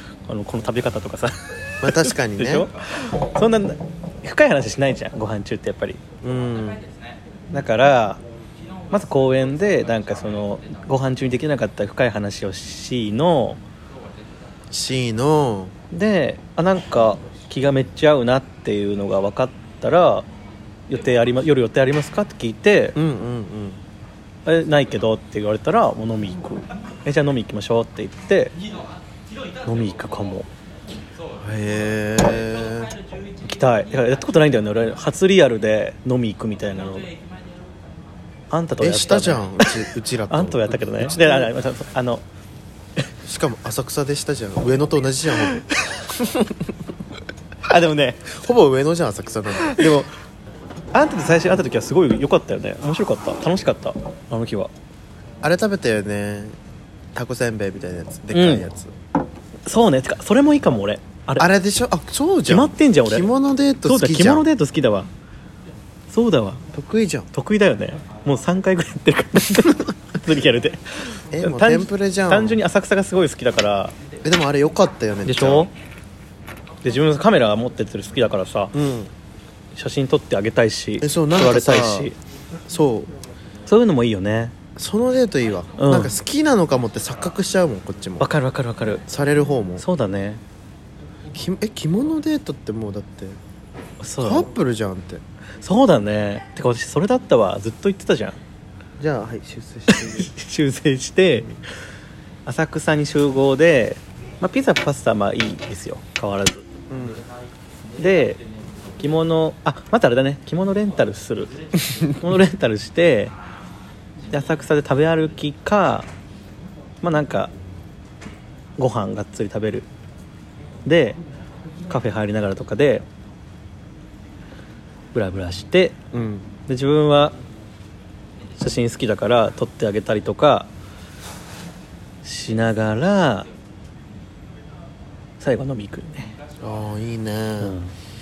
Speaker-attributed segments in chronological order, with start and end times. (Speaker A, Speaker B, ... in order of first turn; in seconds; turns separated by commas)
Speaker A: 0.3-6.0, Speaker B: 1.8-2.7, Speaker B: 6.2-6.8, Speaker A: 7.5-8.2, Speaker A: 8.9-13.6, Speaker B: 14.7-15.7, Speaker A: 15.9-20.3, Speaker A: 20.9-23.0, Speaker B: 22.9-23.8, Speaker A: 24.4-28.5, Speaker A: 29.6-30.5, Speaker B: 31.4-33.0, Speaker A: 33.4-37.1, Speaker A: 38.5-39.7, Speaker B: 38.8-41.5, Speaker A: 40.3-42.2, Speaker B: 43.2-45.6, Speaker A: 45.4-46.1, Speaker B: 46.2-46.7, Speaker A: 47.6-48.4, Speaker B: 48.4-50.0, Speaker A: 49.6-50.1, Speaker A: 50.9-54.7, Speaker B: 55.4-56.6, Speaker B: 57.1-58.9, Speaker A: 58.3-58.7, Speaker A: 59.6-61.5, Speaker B: 61.4-64.5, Speaker A: 62.5-63.3, Speaker A: 63.8-65.1, Speaker A: 66.1-66.6, Speaker B: 66.7-67.3, Speaker A: 67.3-73.9, Speaker B: 71.3-72.6, Speaker B: 74.2-75.7, Speaker A: 75.2-75.7, Speaker A: 76.8-78.8, Speaker B: 78.7-79.1, Speaker A: 79.7-82.2, Speaker B: 81.0-82.1, Speaker B: 82.7-83.1, Speaker A: 83.7-84.5, Speaker B: 84.8-88.3, Speaker A: 85.8-86.1, Speaker A: 88.2-89.0, Speaker B: 89.1-89.8, Speaker A: 89.8-90.4, Speaker B: 91.3-93.4, Speaker A: 94.0-94.5, Speaker B: 94.2-95.2, Speaker A: 95.6-98.4, Speaker B: 99.0-100.3, Speaker A: 99.9-101.6, Speaker A: 102.5-106.6, Speaker B: 106.9-107.2, Speaker A: 108.0-108.4, Speaker A: 109.0-111.5, Speaker A: 112.0-113.3, Speaker A: 114.3-116.1, Speaker A: 117.0-117.5, Speaker A: 118.8-119.9, Speaker A: 120.8-121.2, Speaker A: 121.9-123.0, Speaker A: 125.1-126.0, Speaker B: 126.1-126.5, Speaker A: 126.7-127.3, Speaker A: 128.6-130.7, Speaker A: 132.2-133.5, Speaker A: 135.4-136.3, Speaker B: 136.6-137.8, Speaker A: 137.6-137.9